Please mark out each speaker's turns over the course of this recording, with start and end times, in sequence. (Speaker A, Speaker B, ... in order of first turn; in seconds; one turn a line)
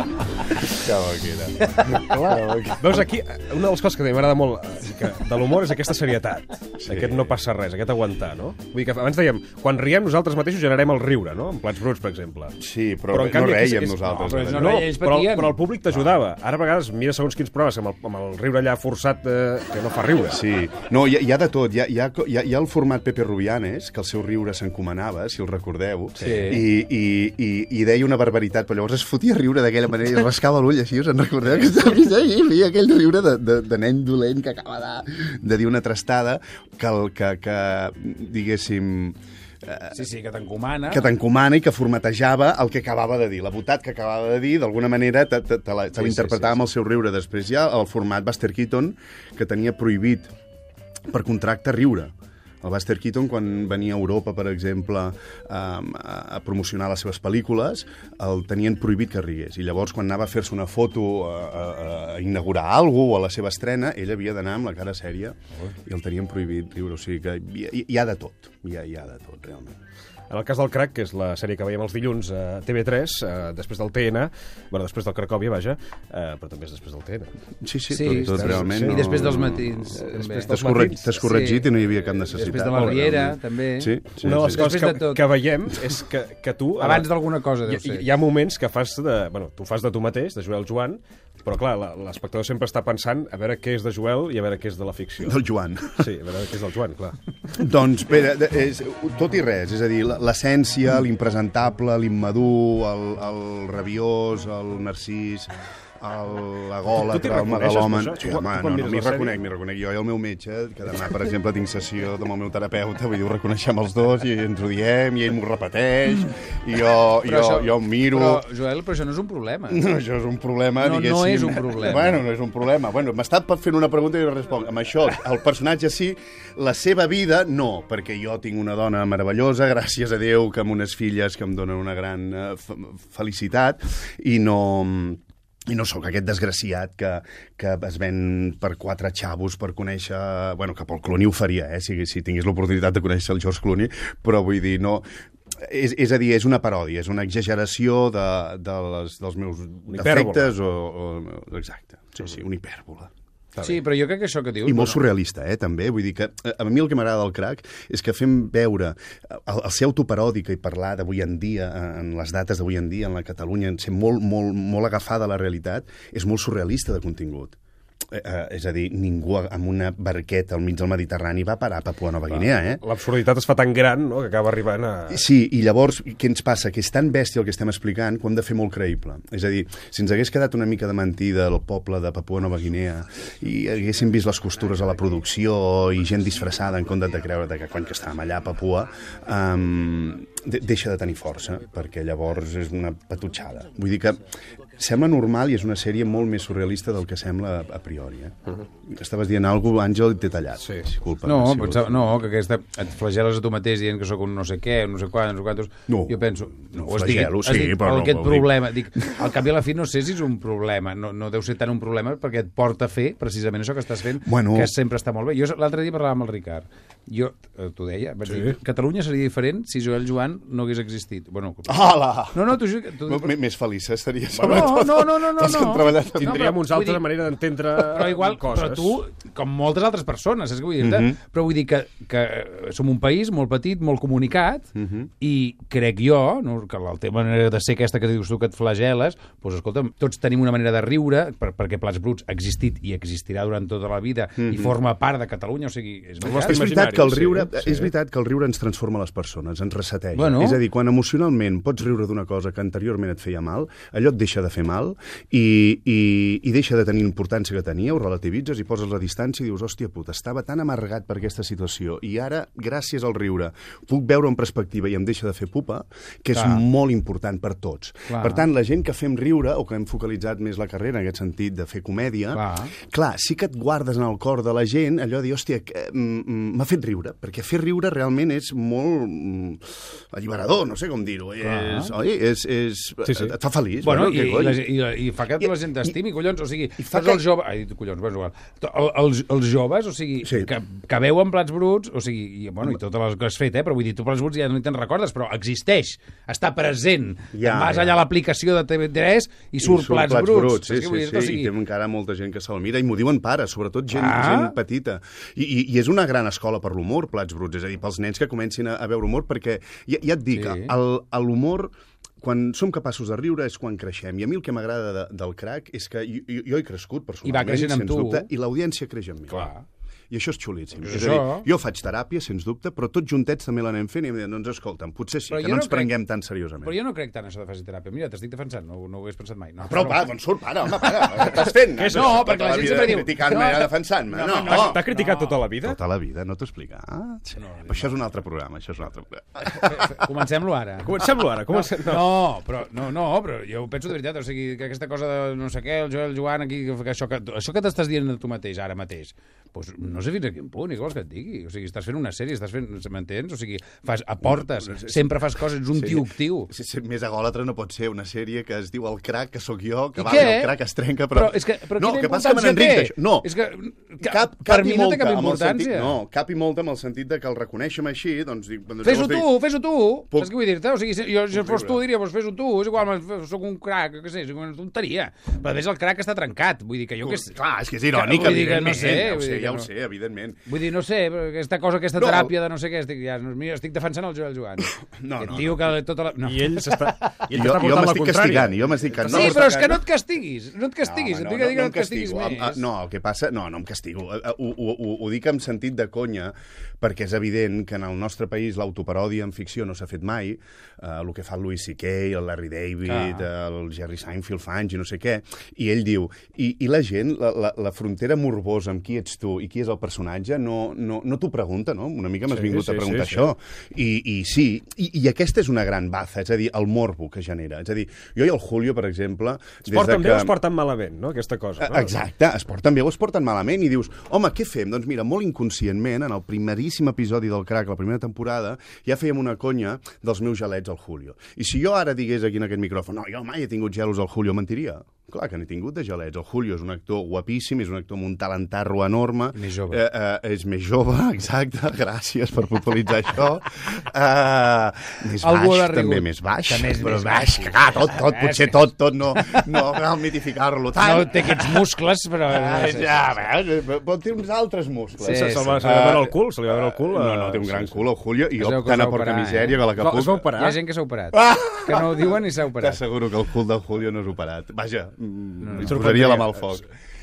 Speaker A: 0.7-2.9
Speaker B: 2.0-12.6
Speaker A: 6.8-7.3
Speaker A: 12.6-14.9
Speaker B: 13.1-20.4
Speaker C: 14.1-15.6
Speaker A: 20.3-40.0
Speaker B: 26.2-26.6
Speaker C: 26.2-26.6
Speaker C: 39.9-41.1
Speaker A: 40.9-50.3
Speaker C: 46.0-46.5
Speaker A: 51.1-69.8
Speaker B: 70.3-77.3
Speaker A: 77.6-84.7
Speaker C: 77.9-80.5
Speaker B: 78.3-79.2
Speaker B: 79.9-81.5
Speaker C: 81.1-81.7
Speaker C: 82.3-85.2
Speaker B: 82.6-82.9
Speaker B: 84.2-95.4
Speaker C: 86.8-88.0
Speaker A: 95.2-96.1
Speaker B: 95.9-97.2
Speaker A: 97.5-118.4
Speaker B: 107.0-109.4
Speaker C: 117.2-119.9
Speaker A: 119.7-153.8
Speaker C: 120.8-122.2
Speaker B: 149.9-150.5
Speaker C: 153.6-155.0
Speaker A: 154.6-167.6
Speaker A: 168.1-172.8
Speaker B: 172.8-175.2
Speaker A: 175.1-202.2
Speaker B: 200.6-200.9
Speaker C: 201.2-223.3
Speaker A: 205.9-209.0
Speaker A: 214.2-214.7
Speaker B: 218.3-218.6
Speaker A: 221.7-226.6
Speaker C: 224.3-227.1
Speaker B: 226.1-229.0
Speaker C: 227.8-234.7
Speaker A: 230.8-231.2
Speaker A: 234.8-235.1
Speaker C: 235.2-246.7
Speaker A: 244.4-244.7
Speaker B: 246.2-247.9
Speaker A: 246.4-284.6
Speaker C: 250.1-250.6
Speaker C: 266.3-266.6
Speaker C: 268.1-268.5
Speaker C: 272.3-272.7
Speaker C: 281.4-281.9
Speaker B: 283.0-283.4
Speaker C: 283.8-301.5
Speaker A: 285.4-285.9
Speaker A: 286.8-287.2
Speaker A: 297.3-298.0
Speaker A: 299.6-319.5
Speaker C: 303.9-304.6
Speaker C: 310.3-310.7
Speaker C: 317.2-318.3
Speaker C: 319.3-319.6
Speaker A: 320.1-326.7
Speaker C: 320.8-321.5
Speaker C: 325.3-326.0
Speaker C: 326.6-330.0
Speaker A: 329.6-334.8
Speaker B: 331.8-332.9
Speaker C: 331.9-335.4
Speaker B: 334.4-335.8
Speaker A: 335.6-339.9
Speaker C: 337.4-337.9
Speaker C: 339.6-340.9
Speaker B: 340.8-342.1
Speaker C: 341.5-356.5
Speaker A: 354.2-355.2
Speaker A: 355.7-363.3
Speaker C: 360.0-360.6
Speaker C: 361.1-365.9
Speaker A: 364.0-369.4
Speaker C: 368.8-377.3
Speaker A: 371.3-371.8
Speaker A: 377.0-380.4
Speaker C: 377.9-379.7
Speaker C: 380.5-387.1
Speaker A: 382.0-382.3
Speaker A: 384.8-385.8
Speaker B: 386.2-389.5
Speaker A: 387.3-389.8
Speaker C: 389.0-392.6
Speaker A: 390.8-420.4
Speaker C: 402.9-403.2
Speaker B: 412.3-413.2
Speaker B: 419.7-421.9
Speaker A: 421.6-451.7
Speaker C: 439.3-439.8
Speaker C: 445.2-448.6
Speaker C: 450.8-453.2
Speaker A: 452.3-460.4
Speaker C: 455.0-455.7
Speaker B: 455.0-457.9
Speaker C: 458.4-459.6
Speaker B: 459.7-460.6
Speaker C: 460.3-462.8
Speaker A: 461.1-466.6
Speaker C: 465.4-466.3
Speaker B: 465.6-466.3